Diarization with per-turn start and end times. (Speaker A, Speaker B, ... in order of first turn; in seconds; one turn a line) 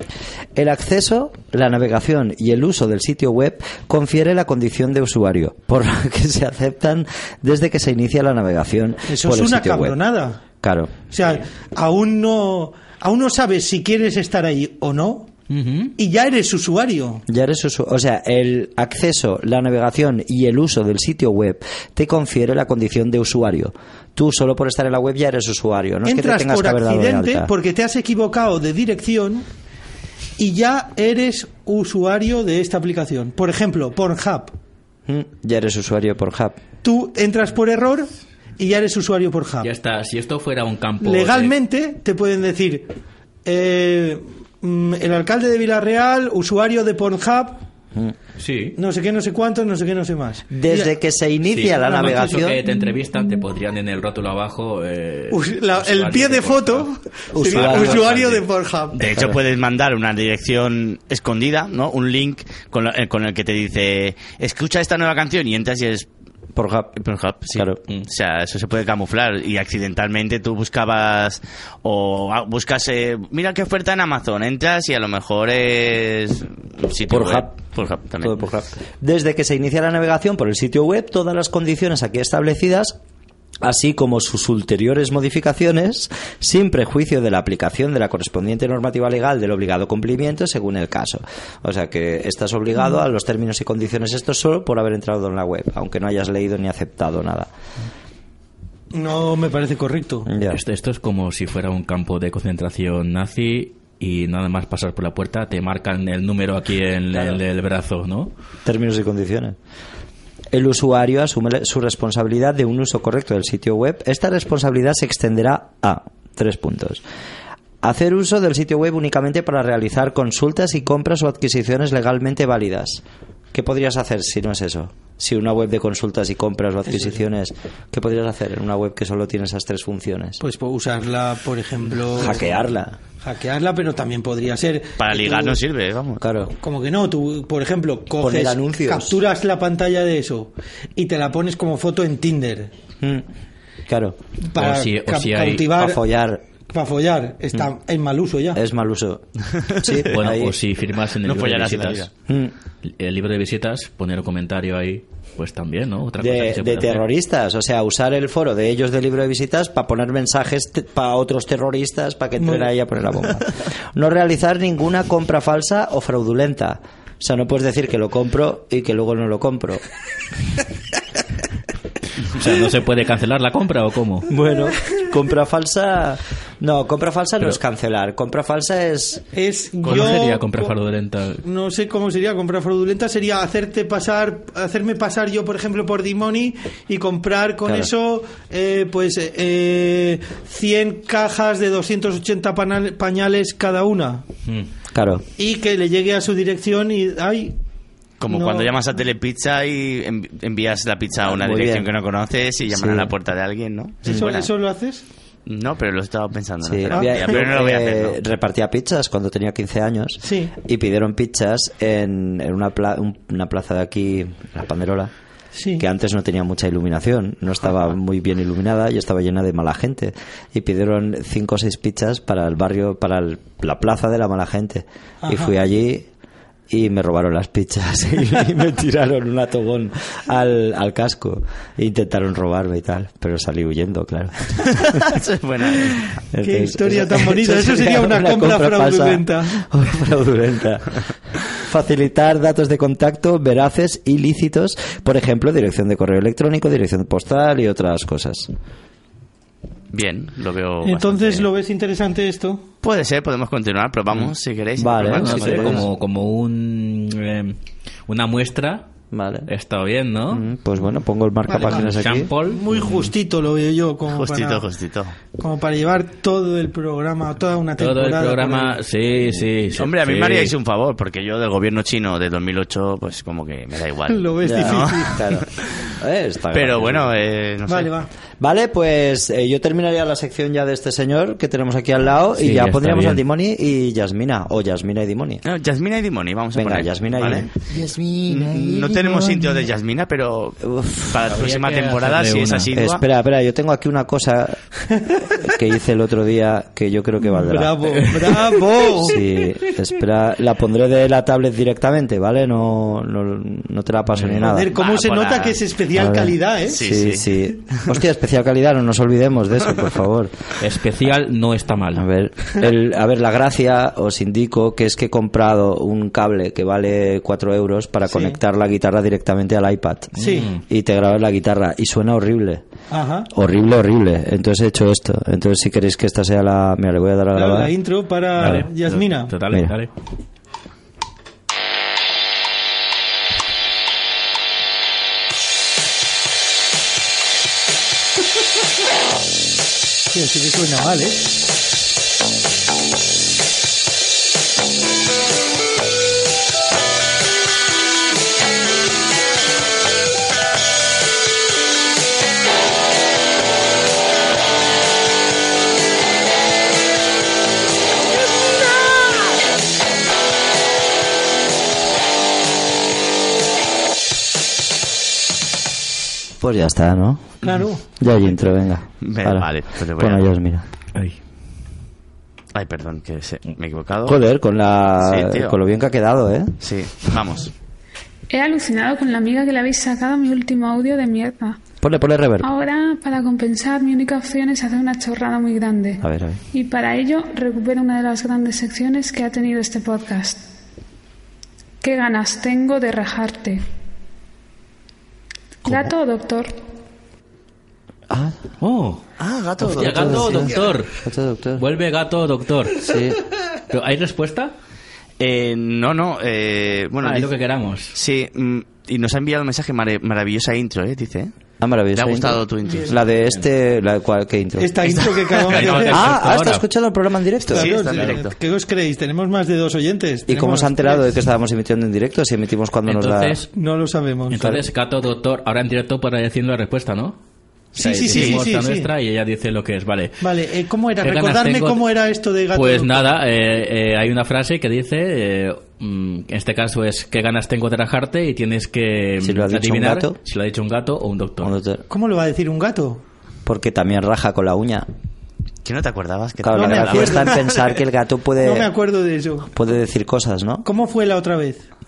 Speaker A: 0.6-10.0
Speaker B: 9.1-10.4
Speaker A: 10.6-11.1
Speaker B: 11.1-15.3
Speaker C: 15.5-15.9
Speaker B: 16.0-17.2
Speaker A: 17.3-27.5
Speaker B: 26.0-29.4
Speaker B: 30.4-34.5
Speaker A: 35.1-36.6
Speaker B: 36.8-39.7
Speaker C: 39.6-41.5
Speaker B: 41.0-42.9
Speaker B: 43.4-47.6
Speaker C: 48.4-48.8
Speaker B: 48.8-50.9
Speaker A: 50.5-52.6
Speaker C: 51.5-58.4
Speaker B: 51.8-52.5
Speaker B: 55.3-59.0
Speaker A: 57.3-58.1
Speaker D: 58.9-66.1
Speaker A: 59.1-59.4
Speaker A: 66.5-67.0
Speaker D: 67.0-78.5
Speaker A: 67.5-67.8
Speaker A: 77.1-77.6
Speaker A: 78.2-83.0
Speaker A: 83.6-97.5
Speaker B: 98.9-100.3
Speaker A: 100.2-100.6
Speaker C: 100.5-108.3
Speaker A: 107.1-107.4
Speaker A: 108.6-109.5
Speaker A: 110.5-117.0
Speaker A: 117.8-123.0
Speaker A: 123.5-130.4
Speaker B: 126.9-127.2
Speaker B: 130.4-132.6
Speaker A: 132.1-133.0
Speaker B: 133.2-135.6
Speaker D: 135.0-136.2
Speaker A: 136.2-136.5
Speaker B: 136.5-142.7
Speaker A: 138.2-139.2
Speaker A: 143.0-143.3
Speaker A: 143.9-144.2
Speaker B: 144.5-146.0
Speaker C: 144.6-145.7
Speaker A: 145.8-146.4
Speaker B: 146.7-148.6
Speaker A: 148.5-150.5
Speaker D: 149.7-150.0
Speaker C: 150.0-152.1
Speaker D: 151.2-152.1
Speaker A: 152.3-152.5
Speaker C: 152.8-157.0
Speaker A: 156.2-169.8
Speaker B: 162.4-162.7
Speaker C: 172.2-174.3
Speaker A: 174.3-179.2
Speaker B: 179.3-180.7
Speaker D: 179.8-180.2
Speaker C: 179.8-181.4
Speaker B: 181.4-194.2
Speaker A: 187.6-187.9
Speaker A: 194.9-195.2
Speaker B: 195.4-197.6
Speaker D: 198.2-204.5
Speaker B: 198.3-198.7
Speaker A: 201.2-201.9
Speaker A: 202.7-203.1
Speaker B: 204.0-205.0
Speaker D: 205.4-208.2
Speaker A: 206.6-215.1
Speaker B: 206.9-207.3
Speaker B: 210.2-210.5
Speaker B: 215.5-215.8
Speaker A: 215.8-226.1
Speaker B: 225.2-225.5
Speaker A: 226.7-235.1
Speaker D: 234.8-236.1
Speaker A: 236.3-248.5
Speaker B: 236.4-239.6
Speaker D: 249.9-251.5
Speaker B: 250.8-252.6
Speaker D: 252.8-255.8
Speaker A: 254.1-255.9
Speaker C: 255.1-257.6
Speaker C: 258.1-258.9
Speaker A: 259.1-259.5
Speaker C: 259.5-260.4
Speaker A: 260.3-262.3
Speaker B: 261.5-264.6
Speaker C: 261.5-263.0
Speaker D: 264.1-265.1
Speaker B: 265.4-268.8
Speaker C: 267.8-270.5
Speaker D: 269.8-275.9
Speaker B: 274.1-275.3
Speaker A: 274.4-277.1
Speaker D: 276.5-277.9
Speaker B: 277.7-278.1
Speaker A: 278.4-285.4
Speaker C: 282.4-283.2
Speaker D: 285.4-287.5
Speaker A: 286.5-289.6
Speaker D: 288.3-293.0
Speaker A: 290.6-291.3
Speaker C: 291.2-292.7
Speaker A: 292.7-294.6
Speaker A: 295.3-304.7
Speaker B: 297.3-299.2
Speaker C: 304.1-304.5
Speaker B: 304.4-306.8
Speaker D: 304.7-305.6
Speaker A: 305.9-310.3
Speaker D: 306.6-307.9
Speaker C: 310.6-312.0
Speaker A: 311.9-322.6
Speaker B: 318.1-318.4
Speaker C: 320.2-320.6
Speaker B: 320.2-320.5
Speaker B: 322.9-323.3
Speaker A: 323.3-327.7
Speaker B: 327.3-329.3
Speaker C: 328.4-329.9
Speaker A: 328.4-328.6
Speaker B: 340.1-341.4
Speaker A: 366.4-367.4
Speaker B: 367.4-367.8
Speaker A: 368.0-370.6
Speaker D: 369.0-370.3
Speaker D: 372.5-374.2
Speaker A: 374.1-376.5
Speaker D: 375.0-375.6
Speaker D: 376.6-377.5
Speaker E: 378.3-381.6
Speaker A: 381.8-382.5
Speaker E: 382.4-390.4
Speaker A: 386.0-386.4
Speaker E: 391.8-393.6
Speaker E: 395.6-396.6
Speaker A: 398.1-398.4
Speaker C: 398.6-399.0
Speaker D: 399.2-400.5
Speaker A: 399.6-401.6
Speaker C: 399.6-400.9
Speaker C: 401.6-402.9
Speaker A: 402.8-403.2
Speaker C: 403.7-404.5
Speaker D: 405.2-407.3
Speaker C: 407.0-407.9
Speaker D: 407.9-411.3
Speaker A: 411.6-415.0
Speaker D: 411.9-413.0
Speaker B: 412.7-412.9
Speaker B: 414.6-416.2
Speaker D: 414.8-416.0
Speaker C: 415.5-416.6
Speaker A: 415.9-418.1
Speaker D: 417.5-418.3
Speaker B: 417.5-421.1
Speaker A: 420.3-423.4
Speaker C: 422.8-423.5
Speaker B: 423.5-424.5
Speaker C: 424.3-427.2
Speaker B: 427.7-428.9
Speaker C: 427.7-430.2
Speaker D: 428.1-428.4
Speaker B: 430.2-433.1
Speaker C: 431.0-431.8
Speaker C: 432.5-441.5
Speaker A: 439.2-440.2
Speaker A: 441.4-441.8
Speaker B: 441.9-443.0
Speaker A: 443.4-444.9
Speaker D: 445.6-447.7
Speaker A: 446.4-448.7
Speaker B: 446.5-447.5
Speaker B: 448.4-449.5
Speaker A: 449.5-450.6
Speaker B: 450.6-451.6